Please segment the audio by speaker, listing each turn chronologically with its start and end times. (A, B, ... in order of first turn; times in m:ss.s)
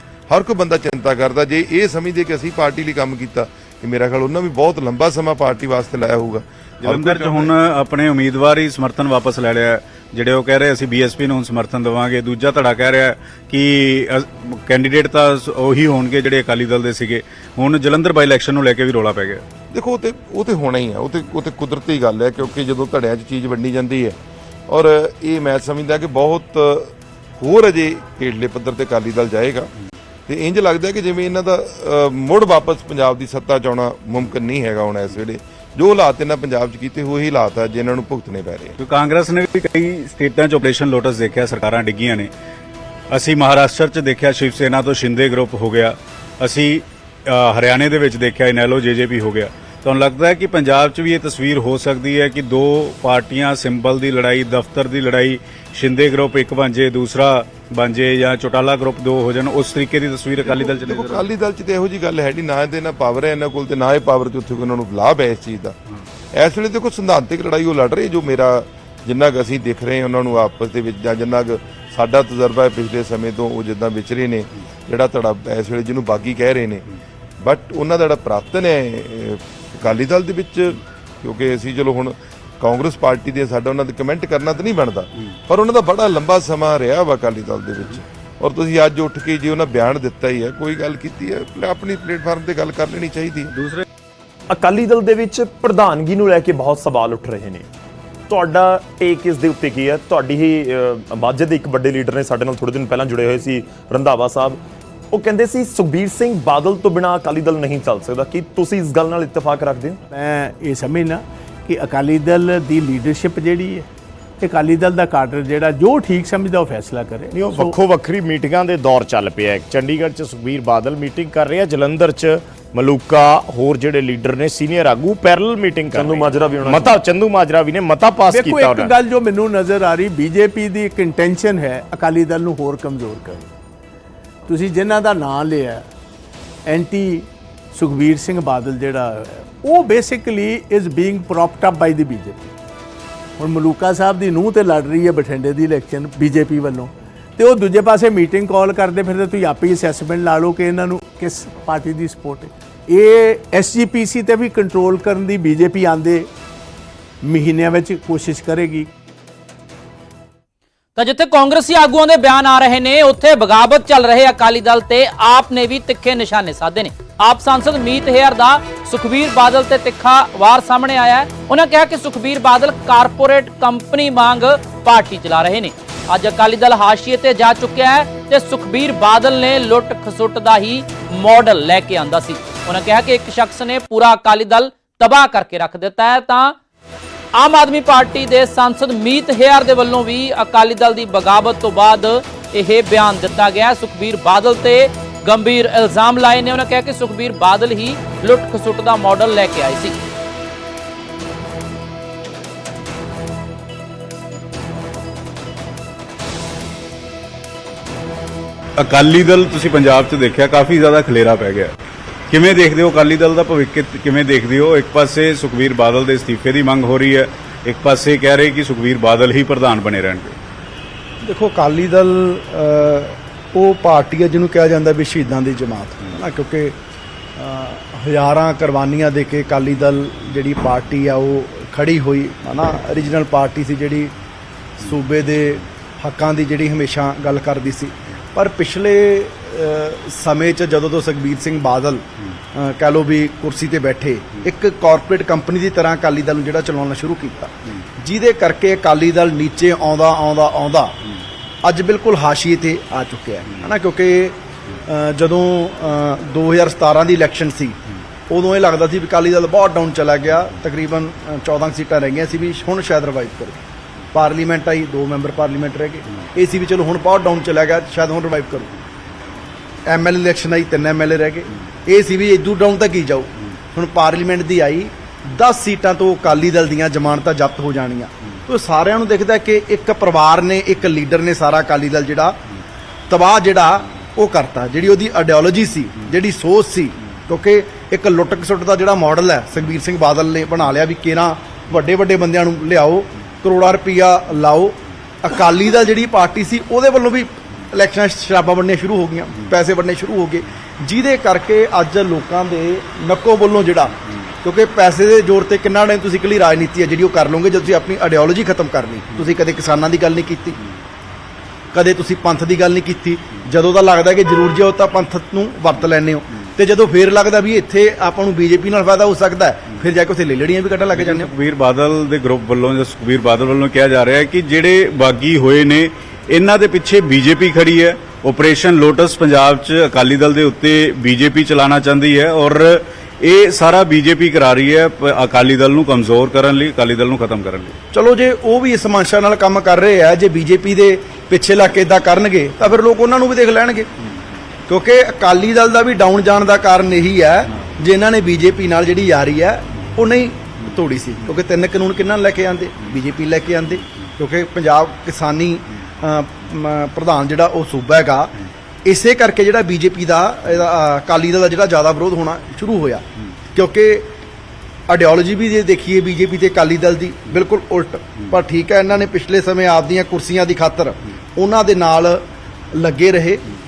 0:00.3-0:07.5 A
0:06.8-0:19.4 B
0:19.7-0:24.2 A
0:24.7-0:29.7 A
0:30.3-0:38.8 A
0:38.8-0:42.3 B
0:43.1-1:01.2 B
1:00.4-1:05.8 A
1:06.3-1:16.8 A
1:17.4-1:33.5 A
1:33.5-1:33.8 B
1:34.5-1:37.7 C
1:38.3-1:44.6 C
1:45.1-1:50.0 C
1:50.1-1:53.9 D
1:54.4-1:57.7 D
1:57.3-2:08.9 E
2:05.9-2:07.0 C
2:08.3-2:13.5 D
2:14.4-2:15.9 D
2:16.7-2:22.5 D
2:23.4-2:36.3 D
2:37.2-2:38.9 D
2:41.0-3:06.6 F
3:07.4-3:20.0 F
3:28.8-3:31.7 B
3:32.3-3:40.4 B
3:41.2-3:46.8 G
3:47.4-3:54.1 G
3:54.8-4:11.0 G
4:11.6-4:23.6 G
4:24.1-4:28.7 G
4:29.8-4:42.4 G
4:43.1-5:10.6 G
5:11.7-5:21.3 G
5:20.9-5:37.8 B
5:37.9-5:43.9 G
5:44.7-6:04.1 G
6:04.9-6:13.5 G